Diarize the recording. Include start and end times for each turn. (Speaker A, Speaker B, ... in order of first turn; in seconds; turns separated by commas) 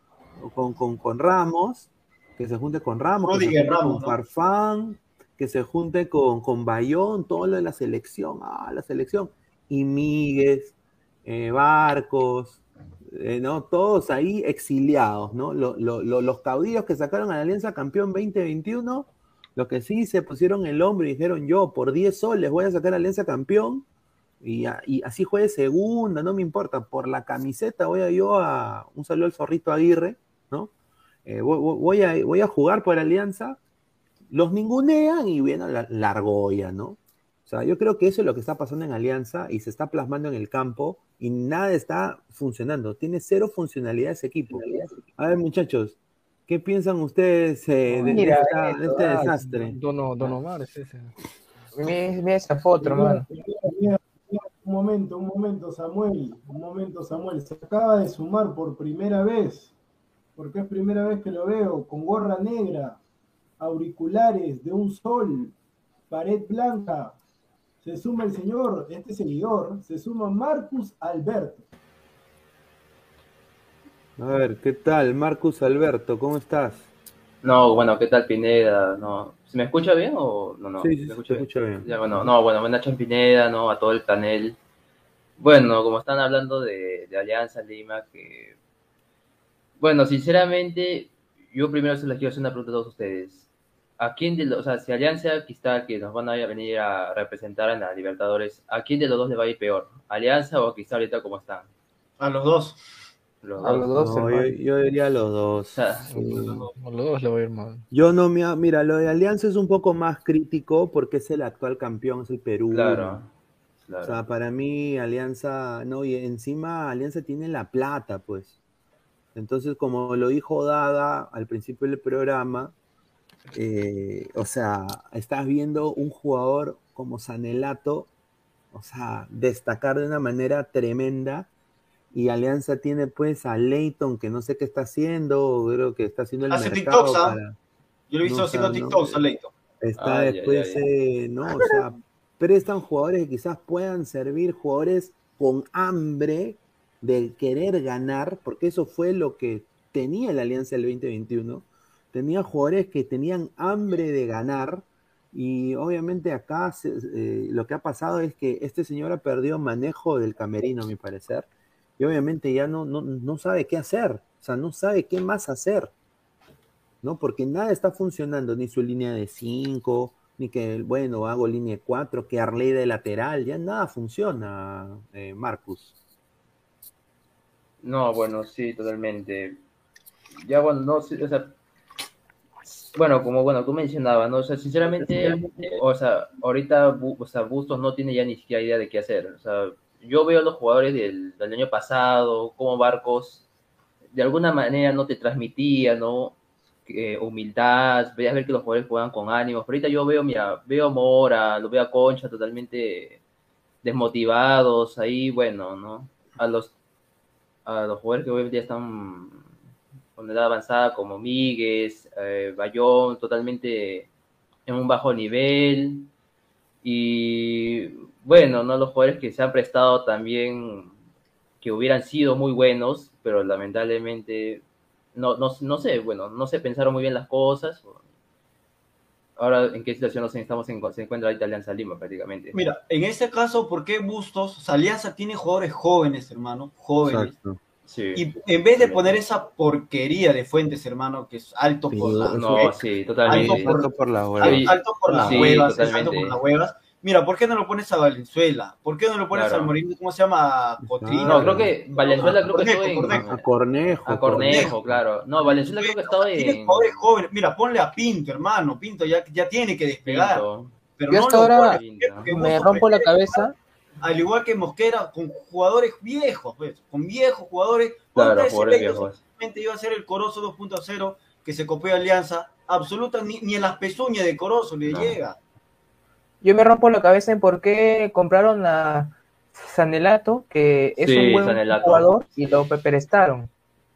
Speaker A: 0.4-23.9, Speaker B: 3.2-4.2, Speaker A: 24.4-30.7, Speaker A: 31.2-33.6, Speaker A: 34.3-46.0, Speaker C: 44.5-45.0, Speaker A: 46.5-50.3, Speaker D: 47.9-48.3, Speaker C: 48.1-49.0, Speaker D: 48.9-51.1, Speaker C: 51.7-53.3, Speaker E: 52.8-59.7, Speaker E: 60.4-63.0, Speaker E: 63.6-65.5, Speaker E: 66.1-67.2, Speaker E: 67.8-71.7, Speaker A: 74.2-76.9, Speaker F: 77.4-84.6, Speaker A: 80.8-82.2, Speaker F: 85.4-88.6, Speaker F: 89.8-93.5, Speaker F: 94.0-101.7, Speaker B: 102.2-102.8, Speaker F: 103.4-104.0, Speaker C: 103.6-104.5, Speaker A: 103.9-106.7, Speaker F: 105.7-106.7, Speaker D: 106.1-107.8, Speaker A: 107.9-113.2, Speaker F: 112.7-113.3, Speaker F: 113.8-114.2, Speaker A: 114.0-118.5, Speaker A: 119.3-122.7, Speaker A: 123.5-128.1, Speaker A: 128.7-131.5, Speaker A: 132.1-137.6, Speaker B: 136.5-137.4, Speaker B: 138.1-139.5, Speaker A: 138.2-139.2, Speaker A: 139.8-161.5, Speaker F: 140.0-140.8, Speaker A: 162.0-165.9, Speaker A: 167.0-175.9, Speaker F: 177.8-179.6, Speaker F: 180.4-181.6, Speaker F: 182.9-193.4, Speaker A: 184.8-185.8, Speaker F: 194.1-203.2, Speaker F: 203.8-206.7, Speaker F: 207.7-209.5, Speaker F: 210.2-214.1, Speaker F: 214.7-216.1, Speaker F: 216.8-221.0, Speaker F: 221.6-224.6, Speaker F: 225.1-228.0, Speaker F: 229.4-232.6, Speaker B: 232.5-237.3, Speaker A: 237.0-237.6, Speaker F: 237.8-239.2, Speaker B: 238.1-243.9, Speaker A: 241.9-245.8, Speaker F: 242.1-243.8, Speaker F: 244.4-246.4, Speaker B: 244.4-253.3, Speaker F: 249.3-249.7, Speaker A: 250.8-252.5, Speaker F: 251.2-253.5, Speaker A: 253.1-255.0, Speaker F: 254.0-257.1, Speaker B: 254.4-254.7, Speaker B: 255.7-260.4, Speaker F: 260.1-260.8, Speaker B: 261.0-263.4, Speaker C: 261.1-263.5, Speaker F: 261.6-262.3, Speaker B: 264.0-275.4, Speaker F: 268.1-269.2, Speaker F: 274.8-275.2, Speaker C: 276.4-283.5, Speaker F: 280.9-282.2